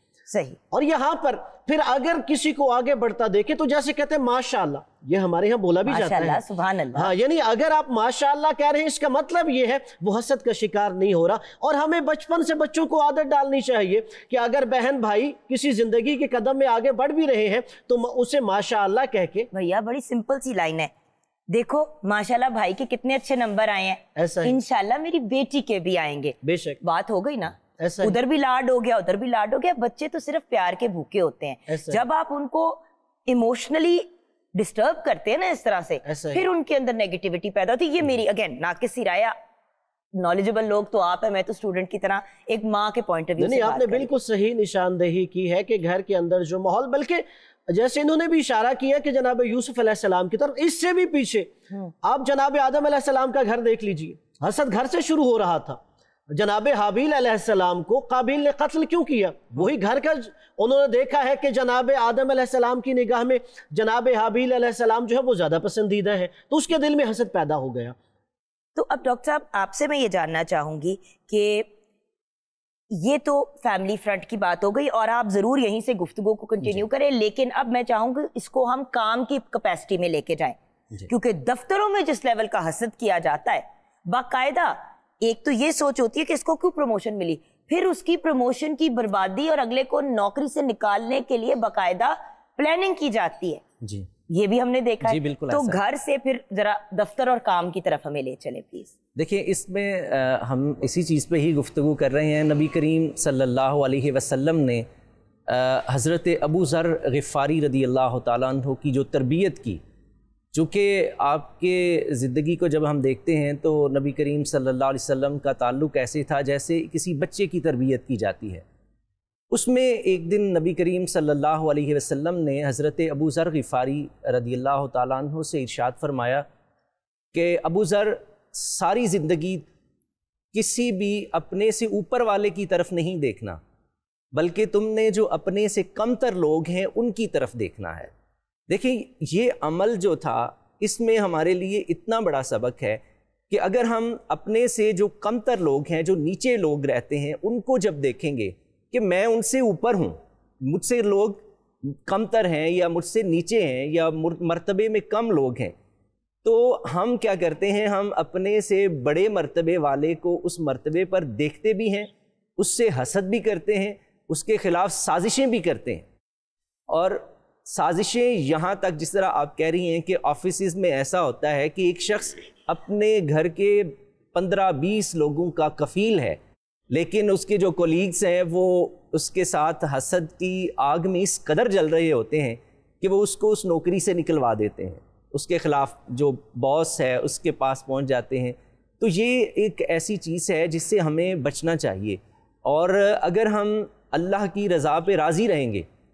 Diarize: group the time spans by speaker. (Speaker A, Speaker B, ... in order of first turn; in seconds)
Speaker A: 0.3-0.6, 5.8-7.1, 19.5-20.9, 21.5-39.3, 40.1-44.1, 68.7-71.7, 72.9-80.6, 81.1-93.6, 94.3-98.9
Speaker B: 0.7-6.4, 6.9-19.5, 24.1-24.6, 26.4-26.8, 27.8-28.2, 31.7-32.0, 36.0-36.5, 43.4-51.5, 52.0-55.8, 56.3-68.0
Speaker C: 93.8-94.1, 95.0-95.8, 99.2-104.8, 105.5-109.8, 110.5-118.6, 119.5-126.4, 127.3-129.7, 130.5-133.6, 134.3-138.1, 138.7-155.7, 156.4-166.0, 166.9-176.4, 176.9-195.8